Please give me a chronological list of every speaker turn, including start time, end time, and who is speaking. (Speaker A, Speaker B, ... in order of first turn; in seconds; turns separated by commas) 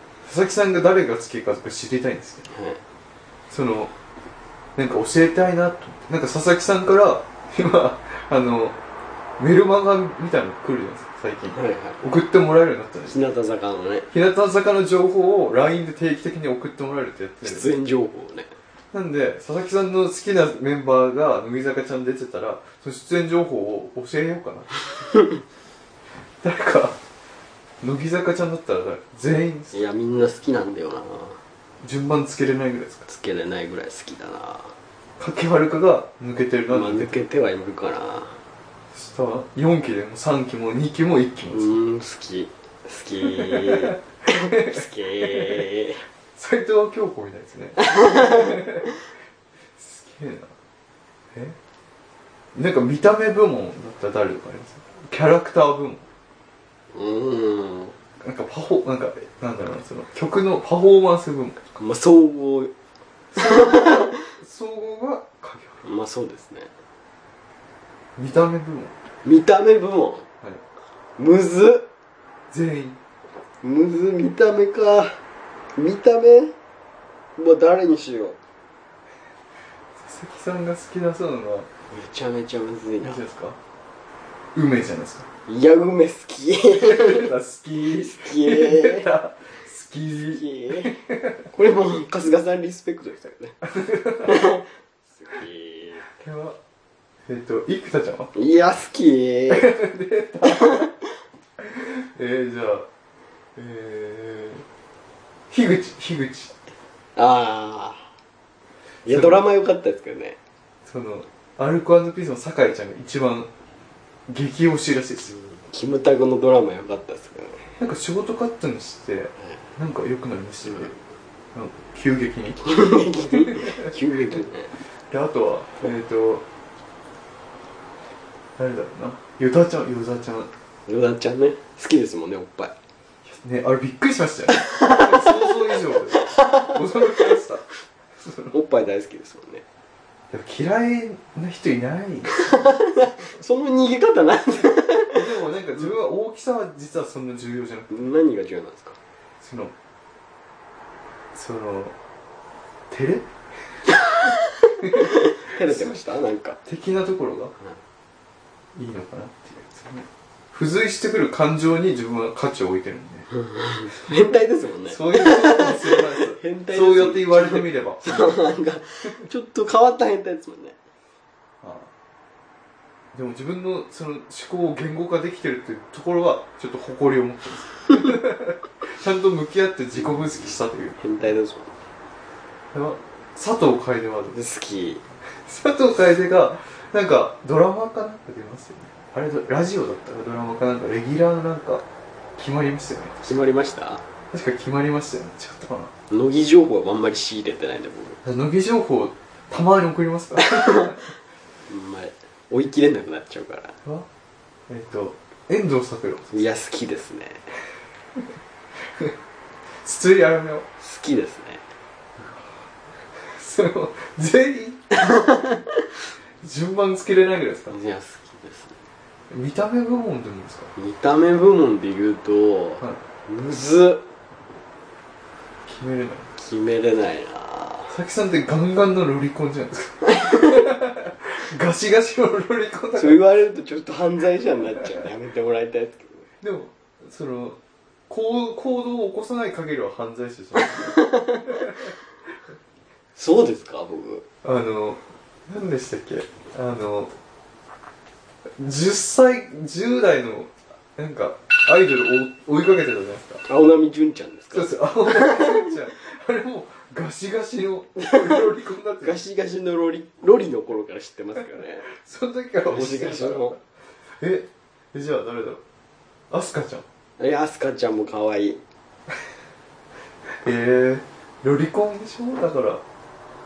Speaker A: 0.2-2.5, Speaker B: 2.5-2.8, Speaker A: 3.5-3.9, Speaker A: 4.8-8.8, Speaker A: 9.4-13.2, Speaker B: 11.5-12.0, Speaker B: 13.1-14.1, Speaker A: 14.1-17.7, Speaker B: 17.4-18.5, Speaker A: 18.9-25.1, Speaker A: 26.4-27.0, Speaker A: 27.8-29.8, Speaker B: 29.7-31.4, Speaker A: 31.8-33.1, Speaker B: 33.1-34.8, Speaker A: 35.2-37.2, Speaker B: 36.7-38.4, Speaker A: 38.9-41.8, Speaker B: 41.5-46.1, Speaker A: 43.2-45.7, Speaker A: 46.3-48.9, Speaker B: 47.8-48.6, Speaker A: 49.8-50.5, Speaker A: 52.5-56.1, Speaker B: 56.9-58.0, Speaker A: 58.2-61.6, Speaker B: 61.8-62.7, Speaker B: 63.4-64.2, Speaker A: 63.4-65.9, Speaker B: 65.8-66.7, Speaker A: 68.2-69.0, Speaker B: 69.2-70.3, Speaker B: 71.2-71.9, Speaker A: 72.5-73.0, Speaker B: 73.6-75.2, Speaker B: 75.8-76.5, Speaker B: 77.4-78.4, Speaker A: 80.0-81.7, Speaker B: 81.9-83.2, Speaker A: 83.0-83.6, Speaker A: 84.5-85.3, Speaker B: 85.5-87.3, Speaker A: 86.8-91.4, Speaker B: 87.8-89.1, Speaker B: 90.3-91.0, Speaker B: 91.5-93.6, Speaker A: 93.6-94.5, Speaker B: 94.2-96.1, Speaker A: 96.2-96.6, Speaker A: 97.3-98.3, Speaker B: 98.3-99.8, Speaker A: 99.5-100.9, Speaker B: 100.4-100.9, Speaker A: 101.6-102.9, Speaker A: 103.6-104.7, Speaker A: 105.5-106.5, Speaker B: 107.2-108.1, Speaker B: 109.0-110.4, Speaker A: 109.1-109.4, Speaker A: 110.9-113.5, Speaker A: 114.3-115.3, Speaker B: 115.3-117.7, Speaker A: 117.8-120.9, Speaker A: 121.5-122.7, Speaker B: 122.6-124.7, Speaker A: 123.2-123.9, Speaker A: 125.1-126.5, Speaker A: 128.6-130.5, Speaker B: 130.9-132.7, Speaker A: 133.2-137.7, Speaker B: 134.7-137.3, Speaker A: 138.2-138.6, Speaker B: 138.5-139.6, Speaker A: 140.3-142.8, Speaker B: 142.4-145.3, Speaker A: 145.1-148.1, Speaker B: 147.9-149.0, Speaker A: 149.4-149.7, Speaker A: 151.3-151.9, Speaker A: 152.9-153.3, Speaker B: 154.0-156.6, Speaker A: 154.8-156.0, Speaker A: 156.7-157.5, Speaker A: 158.8-163.3, Speaker B: 163.3-170.8, Speaker A: 164.9-168.4, Speaker A: 171.6-171.9, Speaker A: 173.1-181.1, Speaker B: 179.9-181.8, Speaker A: 182.7-184.4, Speaker B: 184.3-185.0, Speaker A: 185.3-191.8, Speaker A: 192.4-193.3, Speaker B: 193.2-194.0, Speaker A: 194.3-195.9, Speaker B: 196.1-198.2, Speaker A: 198.2-201.1, Speaker B: 200.4-201.0, Speaker B: 201.7-203.8, Speaker A: 204.7-206.4, Speaker B: 206.3-207.6, Speaker A: 208.8-209.1, Speaker A: 209.8-210.7, Speaker B: 210.8-211.7, Speaker A: 213.1-215.0, Speaker B: 215.0-215.7, Speaker A: 216.4-217.8, Speaker B: 217.7-218.8, Speaker A: 219.3-220.7, Speaker B: 220.8-224.1, Speaker A: 225.7-226.3, Speaker B: 226.4-227.9, Speaker A: 227.9-233.2, Speaker B: 230.1-230.6, Speaker B: 232.9-236.3, Speaker A: 236.4-241.9, Speaker B: 240.6-241.7, Speaker B: 243.2-244.3, Speaker A: 244.4-247.1, Speaker A: 248.5-253.4, Speaker B: 253.4-255.7, Speaker A: 254.5-259.2, Speaker B: 259.0-261.9, Speaker A: 261.9-263.6, Speaker B: 262.7-263.6, Speaker A: 264.1-265.6, Speaker A: 266.3-266.9, Speaker B: 267.2-268.6, Speaker A: 270.3-272.8